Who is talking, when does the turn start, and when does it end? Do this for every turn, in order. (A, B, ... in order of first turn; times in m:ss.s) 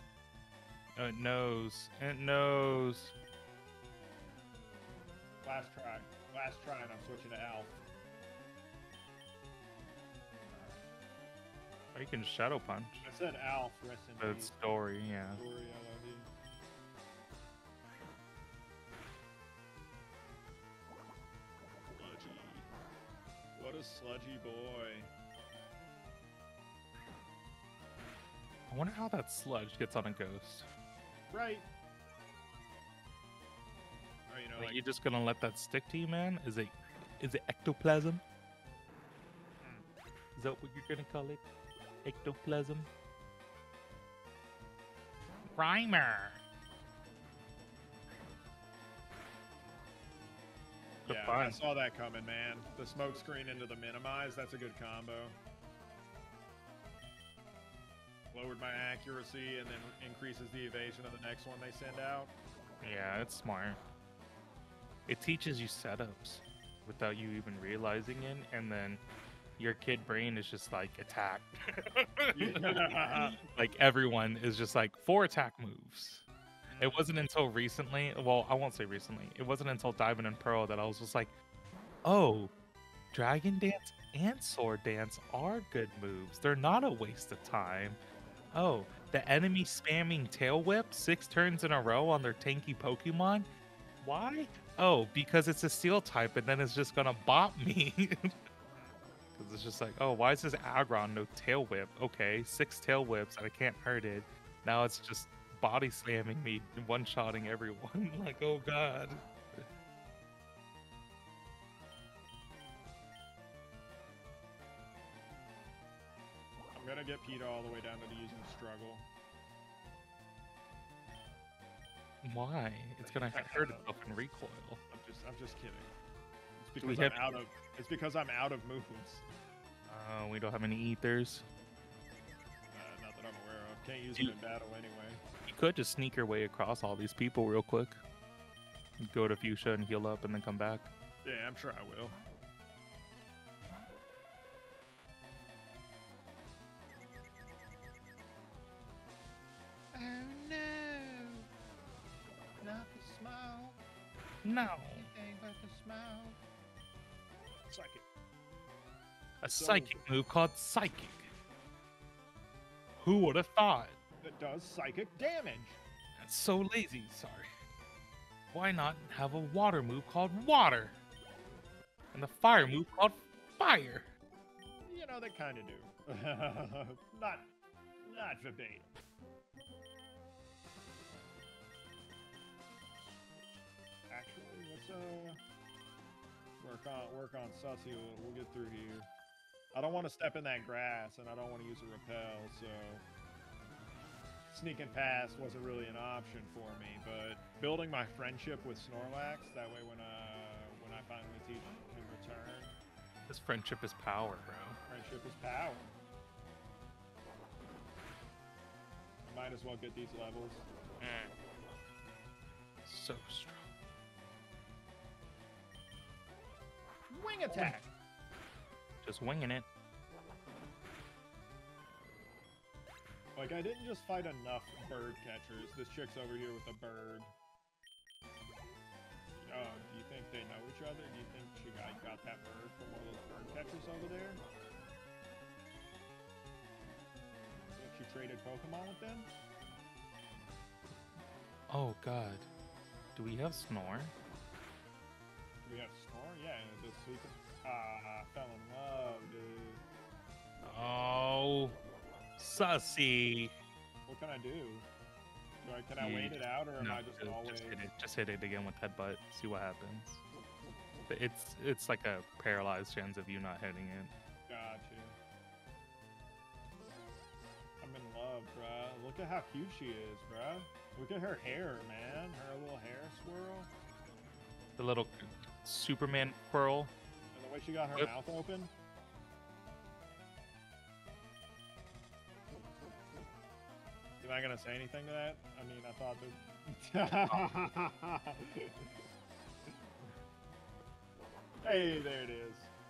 0:01.0-0:03.1 A
0:05.4-0:07.8 B
0:11.9-0:13.0 A
0:13.0-0:14.5 B
0:14.2-0:15.4 A
0:15.4-0:16.3 B
0:22.0-0:22.7 B
0:23.6-0:25.1 B
0:28.7-0:30.7 A
0:31.3-0:31.7 B
0:34.3-0:34.8 B
0:34.6-0:38.2 A
0:39.6-0:39.9 B
0:40.4-0:41.4 A
0:42.0-0:42.9 A
0:45.5-0:46.4 A
0:51.0-0:51.6 A
0:51.1-0:55.4 B
0:58.3-1:02.3 B
1:02.8-1:03.8 A
1:05.1-1:09.0 A
1:09.6-1:21.3 A
1:12.3-1:13.4 B
1:16.8-1:17.1 B
1:22.0-1:22.5 A
1:23.1-1:28.0 A
1:28.5-1:33.5 A
1:34.0-1:38.3 A
1:39.3-1:49.6 A
1:56.7-1:59.1 B
2:02.2-2:04.8 A
2:03.0-2:03.9 B
2:04.9-2:05.9 B
2:06.6-2:09.3 B
2:06.8-2:07.4 A
2:09.9-2:11.4 A
2:12.7-2:15.2 B
2:15.5-2:18.0 A
2:19.0-2:20.9 A
2:21.2-2:22.2 B
2:29.9-2:31.5 B
2:32.6-2:33.8 B
2:34.4-2:35.1 A
2:35.0-2:36.4 B
2:37.7-2:38.1 B
2:39.4-2:41.3 A
2:39.4-2:40.0 B
2:43.0-2:44.0 A
2:44.2-2:45.8 B
2:46.2-2:47.5 A
2:48.5-2:51.0 A
2:52.1-2:54.1 A
2:54.8-2:57.5 B
2:58.0-2:59.0 B
3:04.1-3:05.4 B
3:06.6-3:09.1 B
3:09.7-3:13.0 B
3:14.5-3:22.8 B
3:23.3-3:24.8 A
3:24.9-3:26.0 B
3:29.2-3:30.7 B
3:31.0-3:31.3 A
3:32.8-3:33.7 A
3:37.1-3:37.9 B
3:37.5-3:37.8 A
3:39.0-3:39.7 A
3:43.4-3:47.3 B
3:49.4-3:54.4 B
3:57.7-3:59.3 B
4:01.7-4:02.5 A
4:03.2-4:04.2 A
4:05.6-4:09.8 B
4:10.6-4:11.8 A
4:12.4-4:13.5 A
4:14.1-4:14.9 B
4:15.6-4:17.9 B
4:16.0-4:20.2 A
4:21.1-4:24.2 A
4:24.5-4:25.2 B
4:27.8-4:33.7 B
4:34.8-4:36.9 A
4:37.3-4:38.7 B
4:44.2-4:49.0 B
4:51.6-4:52.7 B